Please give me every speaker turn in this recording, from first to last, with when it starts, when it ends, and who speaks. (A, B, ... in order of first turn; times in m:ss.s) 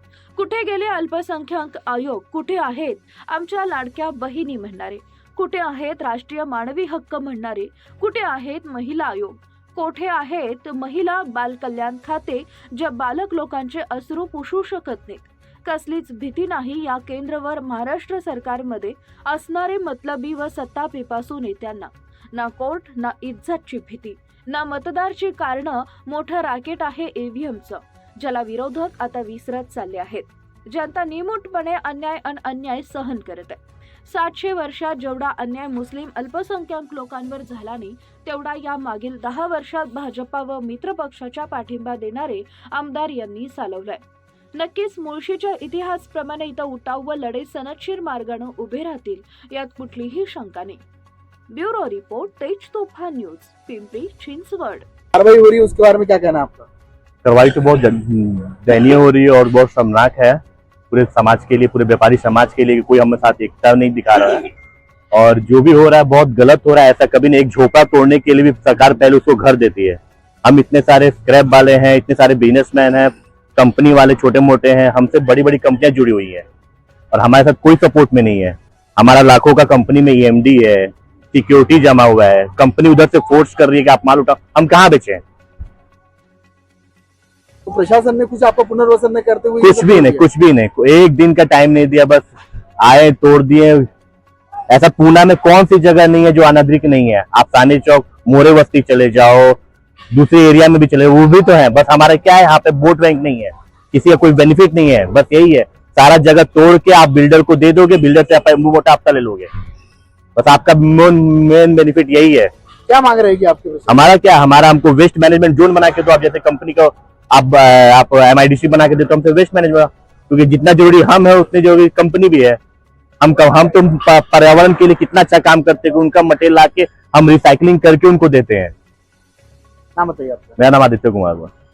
0:00.4-0:44.0 A
0:44.6-0:50.8 A
0:51.5-0:54.9 A
0:55.1-0:56.7 B
0:57.2-1:00.4 C
1:00.9-1:04.5 C
1:05.1-1:16.4 C
1:17.1-1:25.2 C
1:27.7-1:30.2 B
1:29.6-1:32.3 C
1:32.8-1:33.9 C
1:34.7-1:39.6 C
1:40.1-1:49.5 C
1:50.4-1:52.5 C
1:52.9-1:54.1 B
1:53.9-2:02.6 C
2:03.2-2:08.7 C
2:10.0-2:10.6 B
2:10.6-2:11.5 C